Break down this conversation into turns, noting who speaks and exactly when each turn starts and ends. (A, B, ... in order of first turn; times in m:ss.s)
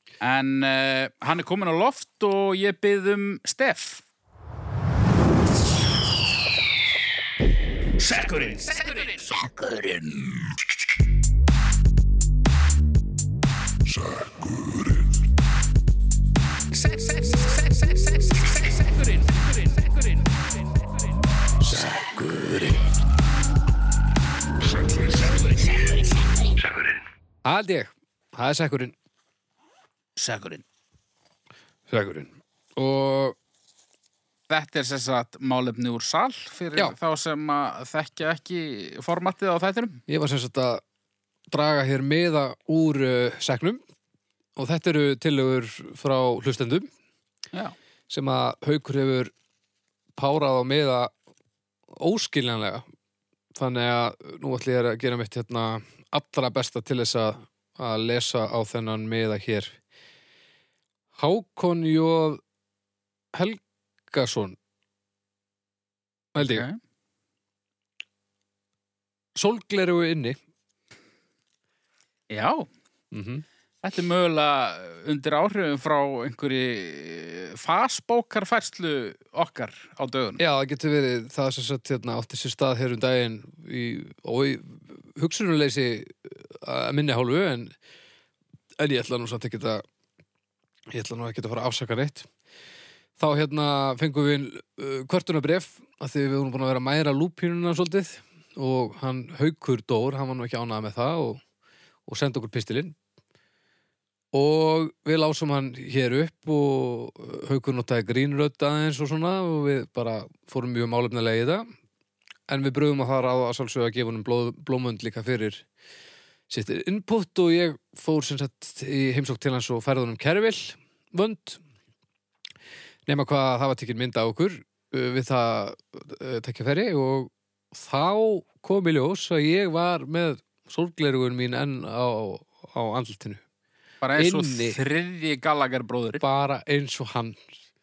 0:00.2-0:04.0 A
0:08.0-0:10.4 A
0:16.7-0:19.7 A
0:21.7-0:22.8 B
0:27.4-0:28.9 B
0:30.2-0:30.6 A
0:31.9-0:33.4 B
0:34.5-0:40.0 A
0:40.1-0:40.8 B
0:41.5-0:43.8 B
0:44.6-0:46.9 B
0:48.1-0:49.3 B
0:50.2-0:51.1 B
0:51.9-0:52.8 B
0:53.5-0:59.8 B
1:01.1-1:02.4 B
1:03.3-1:04.6 B
1:06.3-1:06.6 B
1:06.4-1:06.8 A
1:09.3-1:10.4 B
1:12.3-1:12.7 A
1:13.1-1:13.4 B
1:13.8-1:20.4 A
1:20.4-1:27.7 B
1:28.8-1:29.8 B
1:30.9-1:32.3 B
1:33.2-1:41.4 B
1:42.1-1:43.0 B
1:44.3-1:51.6 B
1:52.5-1:55.6 B
1:56.5-2:01.6 B
2:03.0-2:13.4 B
2:14.0-2:16.2 A
2:14.2-2:14.8 B
2:16.2-2:17.6 B